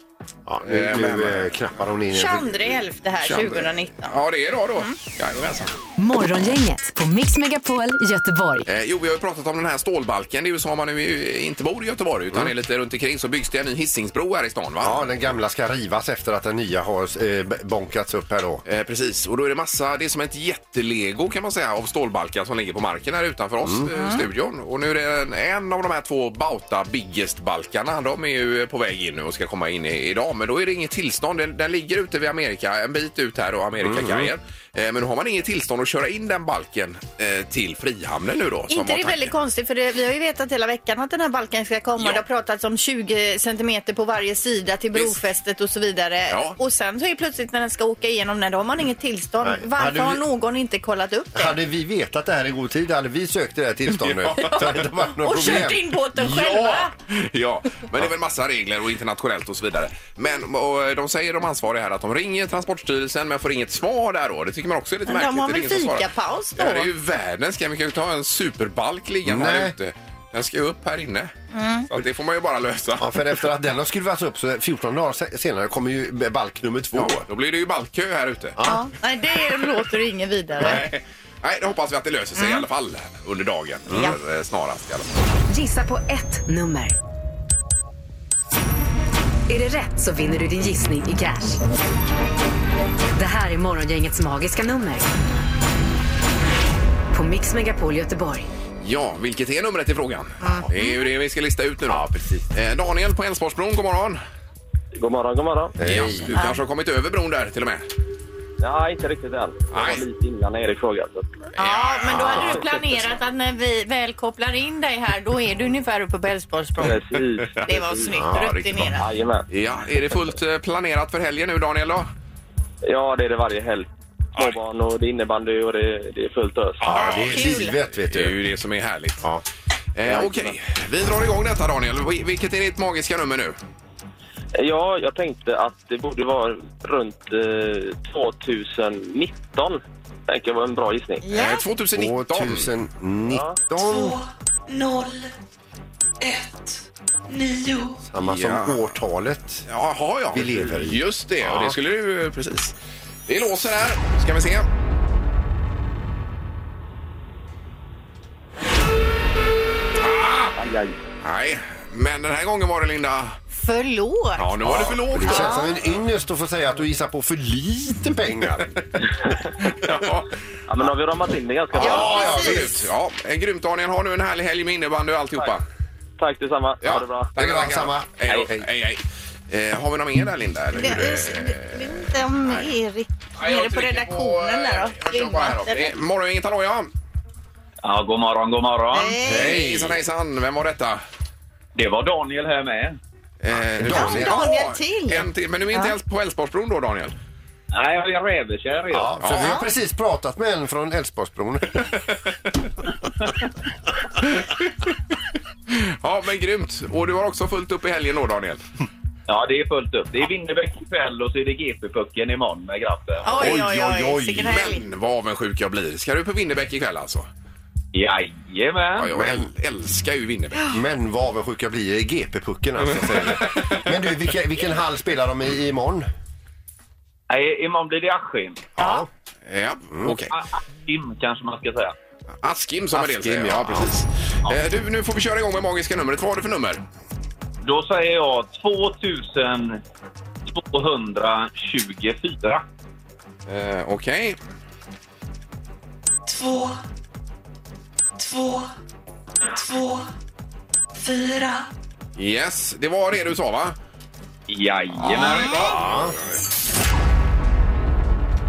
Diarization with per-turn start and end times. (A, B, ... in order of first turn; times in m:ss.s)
0:00.5-0:02.8 A
0:00.6-0:01.6 B
0:02.1-0:04.2 C
0:03.2-0:05.7 B
0:06.0-0:08.7 D
0:08.7-0:15.0 B
0:14.8-0:18.6 A
0:18.7-0:39.3 B
0:23.9-0:24.2 C
0:33.8-0:34.3 A
0:38.7-0:51.6 C
0:46.3-0:46.6 B
0:49.4-0:50.2 A
0:51.4-0:55.8 A
0:54.0-0:54.5 B
0:54.4-0:56.9 C
0:56.2-1:11.3 B
1:05.1-1:06.9 C
1:09.2-1:09.7 A
1:11.5-1:11.9 C
1:11.9-1:13.2 B
1:13.0-1:17.2 A
1:16.9-1:18.6 B
1:18.6-1:20.8 C
1:20.6-1:25.1 B
1:22.4-1:22.6 C
1:23.9-1:24.2 A
1:25.5-1:27.0 D
1:29.5-1:31.6 D
1:33.2-1:35.1 D
1:37.1-1:38.5 D
1:38.8-1:44.2 B
1:40.4-1:41.0 C
1:41.9-1:42.4 A
1:45.0-1:45.8 E
1:45.8-1:46.4 A
1:45.8-1:47.9 B
1:46.3-1:46.6 C
1:48.6-1:51.4 E
1:49.7-1:50.0 B
1:51.6-1:52.6 B
1:51.6-1:57.0 C
1:52.3-1:52.7 E
1:56.8-1:58.2 E
1:57.6-1:59.1 C
1:58.1-1:58.5 A
1:58.3-1:58.9 B
1:59.0-1:59.5 E
1:59.5-2:02.1 B
2:02.8-2:06.8 E
2:06.8-2:09.2 B
2:06.8-2:08.4 A
2:07.3-2:07.8 C
2:10.0-2:13.6 B
2:10.1-2:10.5 E
2:14.6-2:21.2 E
2:21.2-2:21.6 C
2:21.3-2:22.7 B
2:22.0-2:24.2 A
2:23.3-2:23.6 E
2:23.8-2:25.3 F
2:26.2-2:28.0 F
2:28.0-2:29.6 A
2:28.2-2:28.8 B
2:29.7-2:32.7 B
2:30.3-2:31.8 A
2:33.3-2:34.7 B
2:40.0-2:40.6 B
2:40.6-2:40.9 E
2:41.2-2:43.4 B
2:43.5-2:44.5 C
2:44.4-2:45.6 B
2:44.6-2:48.8 A
2:45.2-2:45.7 C
2:49.8-2:50.3 B
2:50.7-2:52.3 E
2:51.8-2:52.8 A
2:51.8-2:55.6 B
2:51.8-2:52.7 C
2:56.2-2:57.3 E
2:56.8-3:02.7 B
2:57.4-2:58.7 A
3:00.8-3:05.9 C
3:03.4-3:06.9 B
3:07.8-3:09.2 G
3:08.9-3:09.7 C
3:09.2-3:10.0 A
3:09.2-3:11.0 B
3:11.8-3:13.0 G
3:13.4-3:17.2 B
3:13.8-3:14.5 A
3:13.8-3:15.9 C
3:17.7-3:19.2 G
3:18.9-3:21.9 A
3:19.2-3:19.6 B
3:19.4-3:19.6 C
3:24.2-3:24.9 B
3:25.7-3:28.6 B
3:29.3-3:33.4 G
3:33.2-3:34.8 C
3:33.4-3:34.6 A
3:34.2-3:37.3 B
3:37.9-3:39.1 G
3:39.0-3:40.7 B
3:39.1-3:39.5 A
3:40.7-3:46.1 A
3:43.0-3:43.9 B
3:47.3-3:48.7 G
3:48.8-3:49.1 A
3:49.5-3:50.3 B
3:50.3-3:52.0 G
3:52.4-3:56.8 B
3:52.9-3:53.9 A
3:57.6-3:59.8 G
4:00.5-4:02.6 G
4:03.5-4:04.4 B
4:06.3-4:06.8 F
4:08.2-4:08.7 F
4:09.5-4:10.1 F
4:11.0-4:11.7 F
4:12.2-4:13.8 B
4:14.5-4:15.6 G
4:15.0-4:16.4 B
4:15.4-4:16.2 A